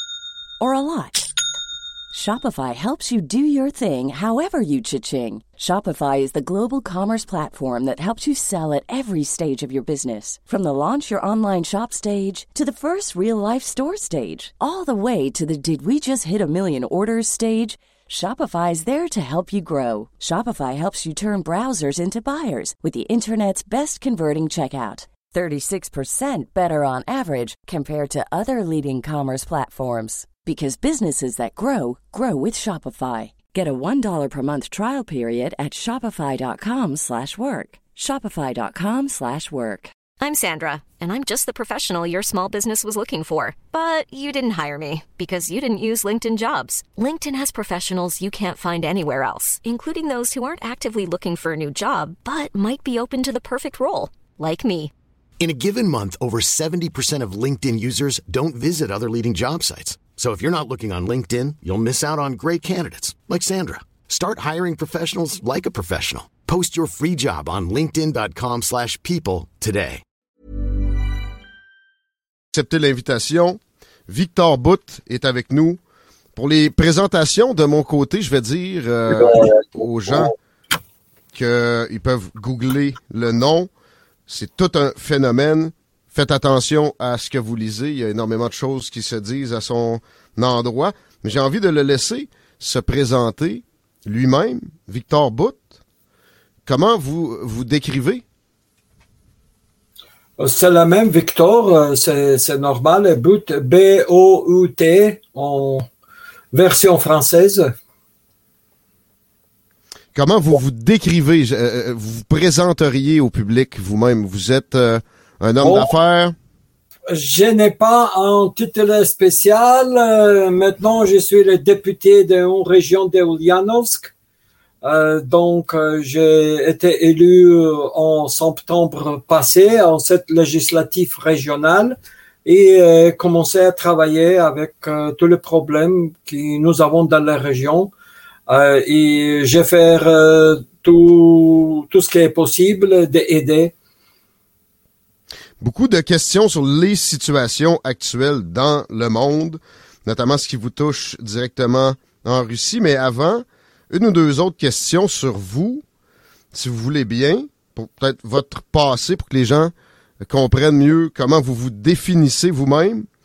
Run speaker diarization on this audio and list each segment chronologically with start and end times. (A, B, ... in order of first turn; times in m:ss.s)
0:00.6-0:01.2 A
0:02.1-0:39.9 A
0:40.2-0:54.9 B
0:55.4-1:10.0 C
1:12.5-1:15.8 D
1:16.3-1:20.3 D
1:21.3-1:23.7 D
1:24.3-1:35.6 D
1:36.6-1:38.2 D
1:40.4-1:45.8 E
1:46.5-1:47.7 E
1:50.1-1:56.4 D
1:55.6-1:55.9 E
1:57.1-2:04.1 E
2:04.8-2:17.9 E
2:18.5-2:23.7 E
2:25.6-2:35.8 D
2:36.5-2:43.1 D